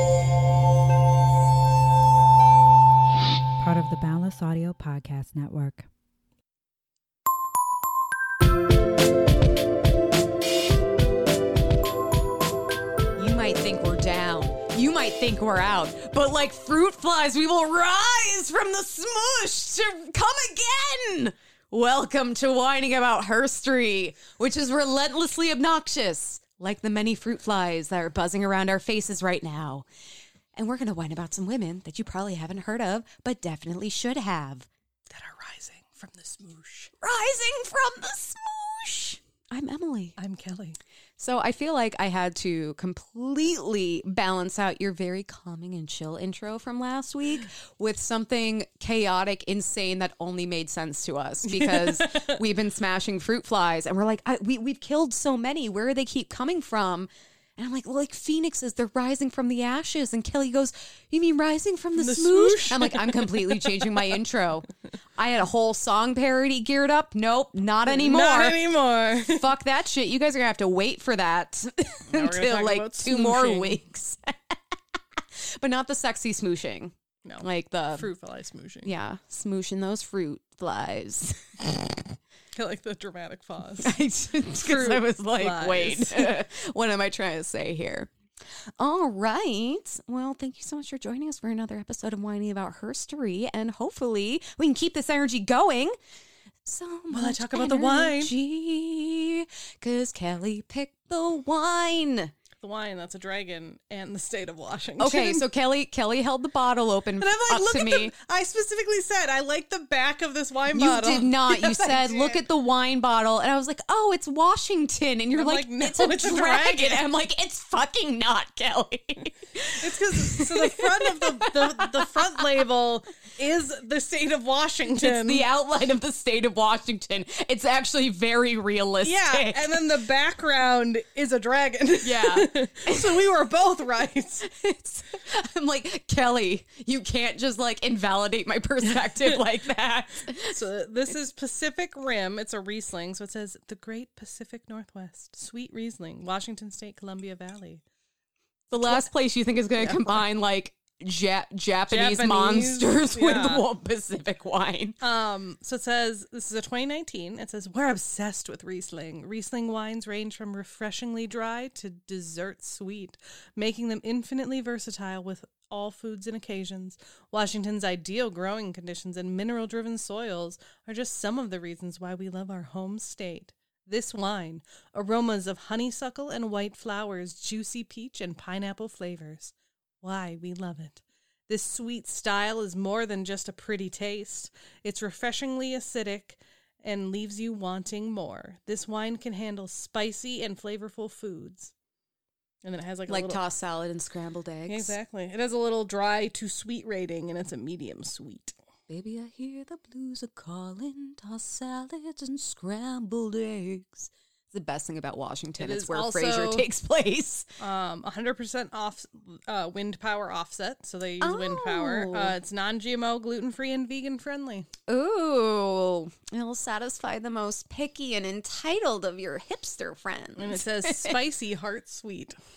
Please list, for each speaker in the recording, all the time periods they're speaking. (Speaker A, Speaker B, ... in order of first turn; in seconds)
Speaker A: 3.6-5.9
Speaker B: 13.2-29.9, 30.6-34.7, 37.0-40.2, 41.2-68.6, 69.2-78.1, 78.8-82.0, 83.8-88.1, 88.8-96.0, 96.6-102.3, 105.0-108.1, 110.7-122.5, 125.0-129.8, 132.0-133.3, 134.4-140.6, 148.7-155.0, 193.1-194.9, 198.9-207.5, 211.2-212.4, 214.9-221.2
Speaker C: 35.1-36.9, 40.2-40.8, 51.5-52.4, 62.0-64.1, 67.9-69.5, 72.1-73.8, 77.2-78.9, 82.5-84.0, 84.6-86.3, 97.1-98.3, 102.6-105.5, 107.2-112.4, 115.3-117.0, 119.8-125.5, 129.0-134.5, 138.8-139.4, 140.4-147.8, 148.7-149.1, 149.8-150.2, 151.9-153.7, 155.0-191.7, 192.6-193.4, 194.7-198.6, 205.6-206.7, 207.6-214.7, 220.4-222.3